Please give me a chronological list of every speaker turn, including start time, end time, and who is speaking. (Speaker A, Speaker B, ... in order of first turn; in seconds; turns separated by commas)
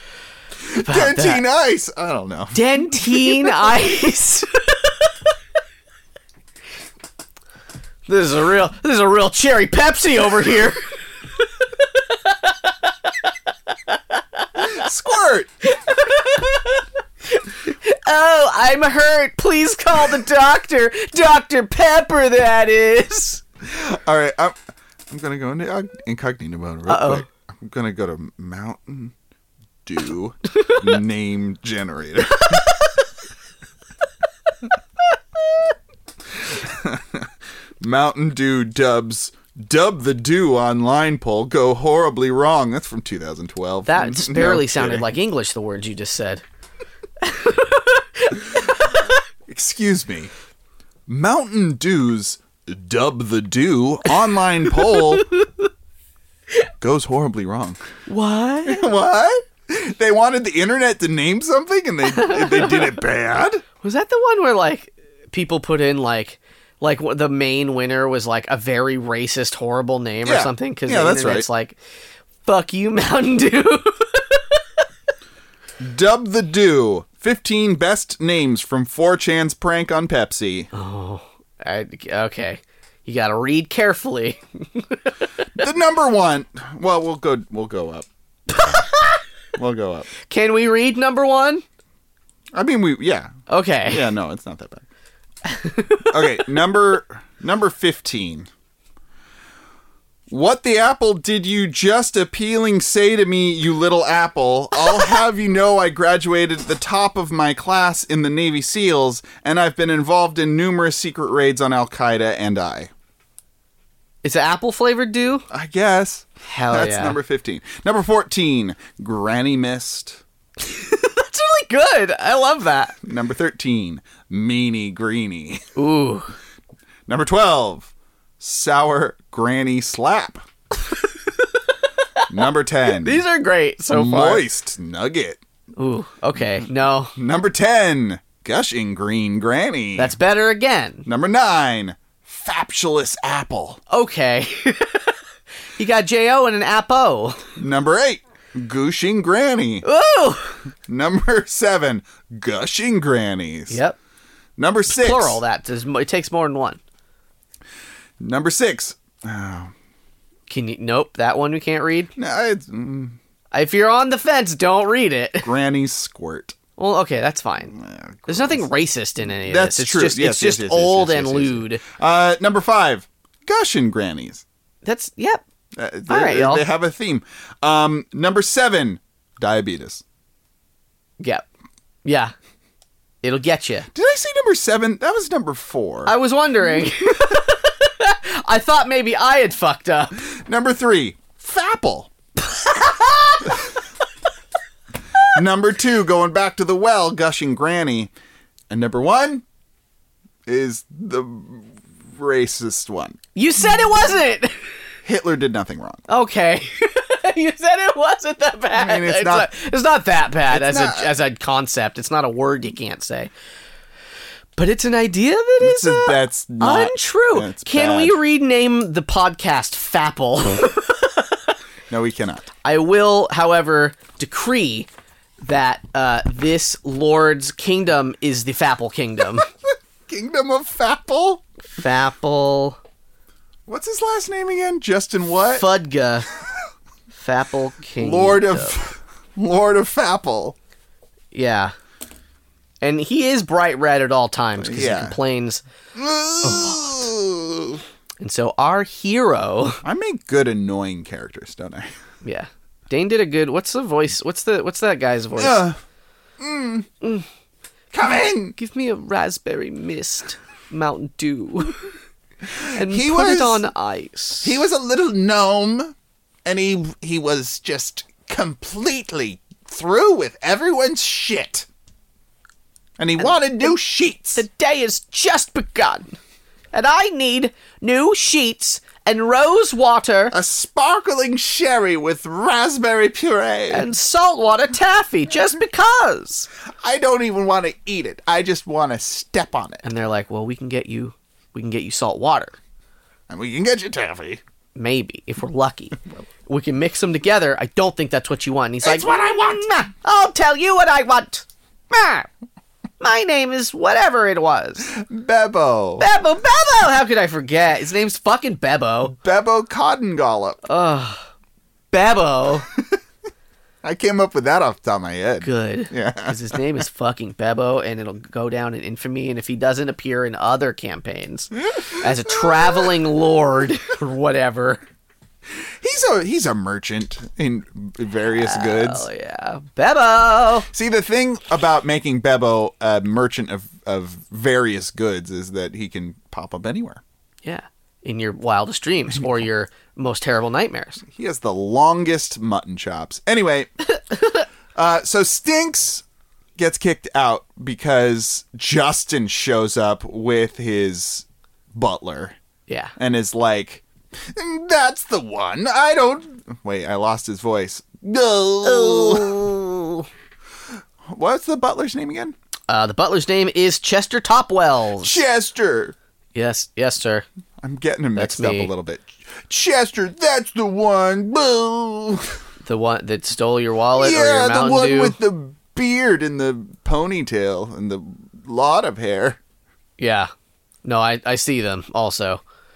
Speaker A: 0.6-3.7, Speaker B: 0.7-1.4, Speaker B: 2.5-5.1, Speaker B: 8.1-10.9, Speaker B: 11.4-14.8, Speaker A: 14.5-15.5, Speaker B: 15.6-23.4, Speaker A: 23.6-24.6, Speaker A: 25.1-29.1, Speaker B: 26.9-27.2, Speaker A: 29.8-32.7, Speaker A: 36.3-45.1, Speaker B: 43.9-46.4, Speaker B: 47.2-49.2, Speaker A: 49.5-50.3, Speaker A: 51.1-55.3, Speaker B: 54.7-55.6, Speaker A: 56.8-57.8, Speaker B: 58.1-58.8, Speaker A: 58.6-63.6, Speaker B: 62.1-62.9, Speaker B: 63.8-71.8, Speaker A: 70.2-71.5, Speaker B: 72.4-74.6, Speaker A: 75.8-80.7, Speaker B: 80.7-85.2, Speaker A: 85.5-88.1, Speaker B: 88.5-89.2, Speaker A: 89.5-90.1, Speaker B: 90.2-91.6, Speaker A: 92.5-93.3, Speaker B: 93.5-94.1, Speaker A: 93.8-94.8, Speaker B: 95.4-96.4, Speaker A: 96.1-98.5, Speaker A: 100.3-112.9, Speaker B: 114.2-115.5, Speaker A: 115.5-120.2, Speaker B: 116.5-117.2, Speaker B: 120.6-123.0, Speaker A: 123.0-125.6, Speaker B: 125.8-126.3, Speaker A: 127.1-130.4, Speaker B: 130.8-132.3, Speaker A: 132.3-133.2, Speaker B: 132.9-134.4, Speaker A: 133.9-135.4, Speaker B: 135.8-137.1, Speaker A: 137.1-140.2, Speaker B: 139.9-141.0, Speaker A: 141.1-143.8, Speaker B: 143.9-145.2, Speaker B: 145.8-147.4, Speaker A: 147.6-149.8, Speaker B: 149.8-150.6, Speaker A: 150.9-153.8, Speaker B: 153.7-154.0, Speaker A: 154.6-155.4, Speaker B: 154.9-156.8, Speaker A: 158.2-159.7, Speaker B: 160.5-162.1, Speaker A: 162.2-163.2, Speaker B: 163.5-165.5, Speaker A: 165.4-166.6, Speaker B: 166.8-167.8, Speaker A: 167.7-168.7, Speaker B: 168.3-171.8, Speaker A: 169.2-174.4, Speaker B: 174.8-175.4, Speaker A: 175.8-180.0, Speaker B: 176.1-176.6, Speaker B: 181.2-181.5, Speaker B: 182.0-182.3, Speaker B: 183.2-183.9, Speaker A: 183.9-186.1, Speaker B: 186.1-190.2, Speaker A: 190.2-192.1, Speaker B: 192.4-193.6, Speaker A: 195.2-198.1, Speaker A: 198.7-199.4, Speaker A: 200.4-203.2, Speaker B: 203.3-204.7, Speaker A: 205.0-206.0, Speaker B: 206.1-213.3, Speaker A: 208.7-209.5, Speaker A: 210.5-211.1, Speaker B: 214.6-221.2, Speaker A: 215.6-218.2, Speaker A: 221.9-222.5, Speaker B: 222.6-224.9, Speaker B: 225.4-229.5, Speaker A: 230.1-231.4, Speaker B: 231.7-232.8, Speaker A: 233.7-235.7, Speaker B: 235.5-236.3, Speaker B: 237.1-238.8, Speaker A: 237.9-240.6, Speaker B: 241.3-241.7, Speaker B: 242.8-245.6, Speaker A: 244.6-245.2, Speaker A: 245.9-247.8, Speaker B: 246.4-246.9, Speaker B: 248.2-249.8, Speaker A: 249.8-251.9, Speaker B: 252.2-255.6, Speaker A: 255.3-255.8, Speaker A: 256.4-256.9, Speaker A: 257.9-258.6, Speaker B: 258.6-261.9, Speaker A: 262.5-263.6, Speaker B: 262.6-264.6, Speaker A: 264.4-271.7, Speaker A: 273.0-274.4, Speaker B: 274.3-276.2, Speaker B: 276.7-280.4, Speaker A: 280.3-283.9, Speaker B: 283.7-286.5, Speaker A: 286.8-289.8, Speaker B: 289.8-292.6, Speaker A: 293.3-294.4, Speaker B: 294.7-302.3, Speaker A: 298.8-299.9, Speaker B: 303.0-304.9, Speaker A: 304.9-306.1, Speaker B: 306.0-309.1, Speaker A: 309.2-310.6, Speaker B: 310.6-311.3, Speaker B: 311.9-312.7, Speaker A: 313.8-316.6, Speaker B: 315.4-324.8, Speaker A: 321.7-323.0, Speaker A: 325.5-329.1, Speaker B: 328.3-330.7, Speaker A: 330.7-337.0, Speaker B: 337.4-341.0, Speaker A: 341.1-343.7, Speaker A: 344.7-346.0, Speaker A: 346.6-352.4, Speaker B: 352.7-352.9, Speaker A: 353.0-359.4, Speaker B: 358.6-360.1, Speaker A: 361.0-362.3, Speaker B: 362.7-365.2, Speaker A: 365.0-365.9, Speaker B: 366.3-367.2, Speaker A: 367.6-372.4, Speaker B: 368.2-368.7, Speaker B: 372.6-375.2, Speaker A: 373.9-379.4, Speaker B: 380.0-380.3, Speaker B: 380.8-382.4